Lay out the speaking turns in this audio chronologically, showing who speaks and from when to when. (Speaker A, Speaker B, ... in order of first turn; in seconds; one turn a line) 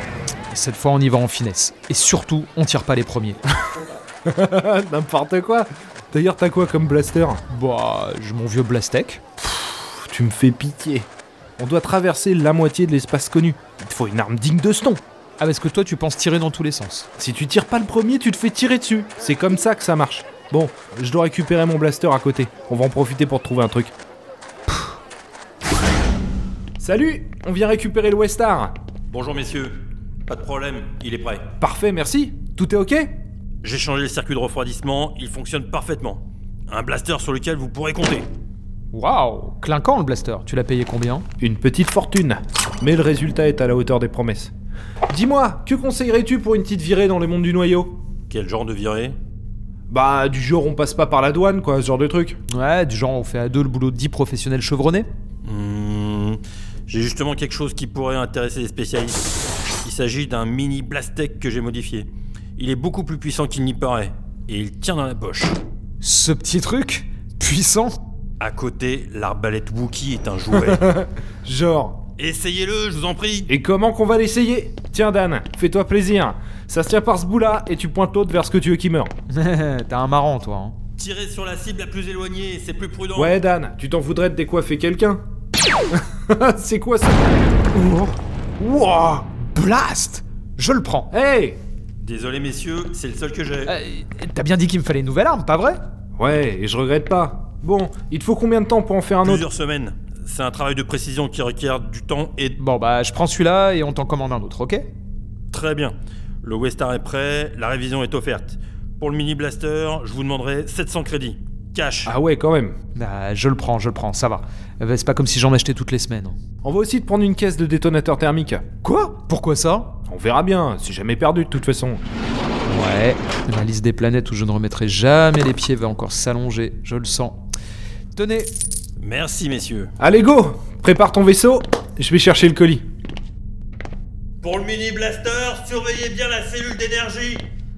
Speaker A: 0.5-3.4
Speaker B: 4.2-7.4
Speaker A: 7.5-9.2
Speaker B: 9.7-15.0
Speaker A: 15.4-17.1
Speaker B: 17.2-23.9
Speaker B: 26.8-28.8
Speaker C: 29.1-29.7
Speaker C: 30.3-31.4
Speaker B: 31.6-33.1
Speaker C: 33.6-38.3
Speaker A: 38.9-41.2
Speaker B: 41.4-44.5
Speaker B: 45.1-48.0
Speaker C: 48.3-49.1
Speaker B: 49.9-52.4
Speaker A: 52.5-55.1
Speaker C: 55.4-59.2
Speaker C: 59.8-65.6
Speaker A: 66.0-68.0
Speaker C: 68.4-70.8
Speaker B: 70.6-72.0
Speaker C: 72.2-73.5
Speaker B: 73.5-79.1
Speaker A: 79.3-80.8
Speaker C: 81.0-83.4
Speaker B: 83.1-85.2
Speaker B: 85.9-89.3
Speaker A: 89.3-91.1
Speaker B: 91.1-91.6
Speaker C: 92.0-93.7
Speaker A: 93.7-95.8
Speaker B: 96.2-99.5
Speaker C: 99.2-102.6
Speaker A: 102.6-104.9
Speaker C: 105.5-112.1
Speaker B: 112.0-112.7
Speaker A: 112.9-116.4
Speaker B: 116.6-118.6
Speaker A: 118.8-119.9
Speaker B: 120.1-122.0
Speaker A: 122.7-127.4
Speaker A: 128.1-128.5
Speaker C: 129.0-129.9
Speaker B: 130.0-132.8
Speaker C: 134.4-137.5